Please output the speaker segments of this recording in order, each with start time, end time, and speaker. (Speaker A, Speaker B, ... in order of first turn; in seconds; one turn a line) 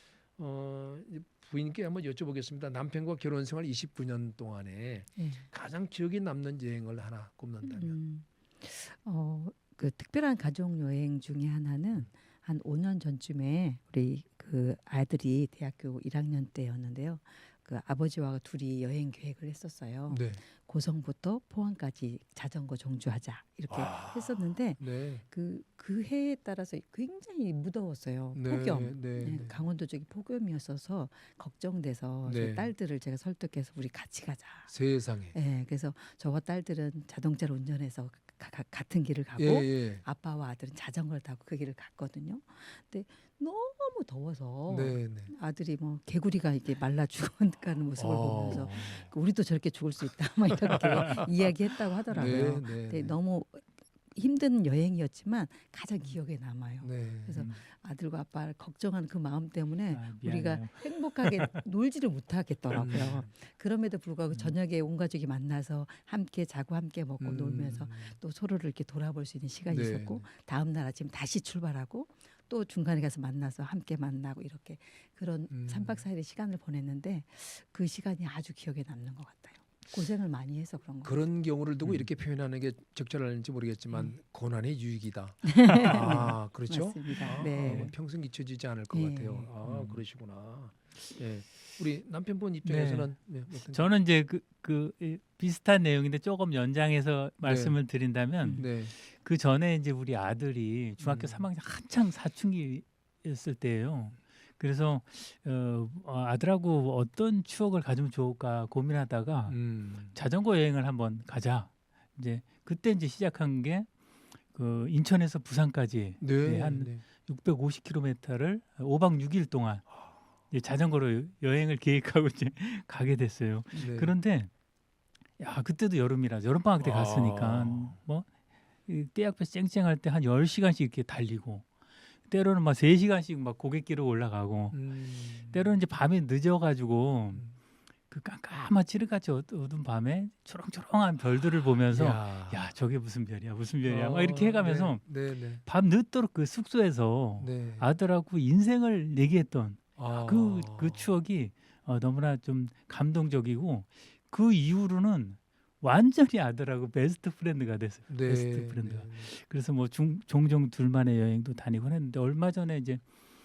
Speaker A: 0.3-8.0
Speaker B: 5.2-5.5
Speaker B: 7.6-34.7
Speaker A: 20.1-20.4
Speaker A: 23.7-25.2
Speaker A: 28.3-29.6
Speaker A: 32.2-32.7
Speaker A: 34.7-35.3
Speaker B: 35.3-81.1
Speaker A: 39.4-40.0
Speaker A: 44.7-45.3
Speaker A: 48.0-49.1
Speaker C: 50.7-51.2
Speaker A: 50.7-51.2
Speaker A: 52.1-53.2
Speaker C: 52.2-52.4
Speaker A: 56.8-57.5
Speaker C: 57.3-57.6
Speaker C: 59.9-61.6
Speaker A: 62.7-63.3
Speaker A: 67.2-68.2
Speaker A: 69.7-70.3
Speaker A: 75.5-76.0
Speaker A: 81.0-93.9
Speaker B: 83.9-84.2
Speaker B: 85.4-87.9
Speaker C: 87.3-87.9
Speaker B: 88.9-89.5
Speaker C: 89.6-90.0
Speaker C: 92.6-113.9
Speaker A: 97.4-97.8
Speaker A: 98.5-98.9
Speaker A: 101.0-101.5
Speaker A: 109.5-110.1
Speaker C: 114.5-119.9
Speaker A: 116.2-117.0
Speaker C: 120.5-124.5
Speaker A: 123.7-124.1
Speaker C: 125.4-128.3
Speaker A: 126.8-128.0
Speaker C: 128.8-131.7
Speaker C: 132.2-137.5
Speaker A: 134.7-135.7
Speaker C: 138.1-163.1
Speaker A: 141.9-142.7
Speaker A: 143.8-145.6
Speaker A: 147.4-147.9
Speaker A: 150.0-151.1
Speaker A: 158.1-159.3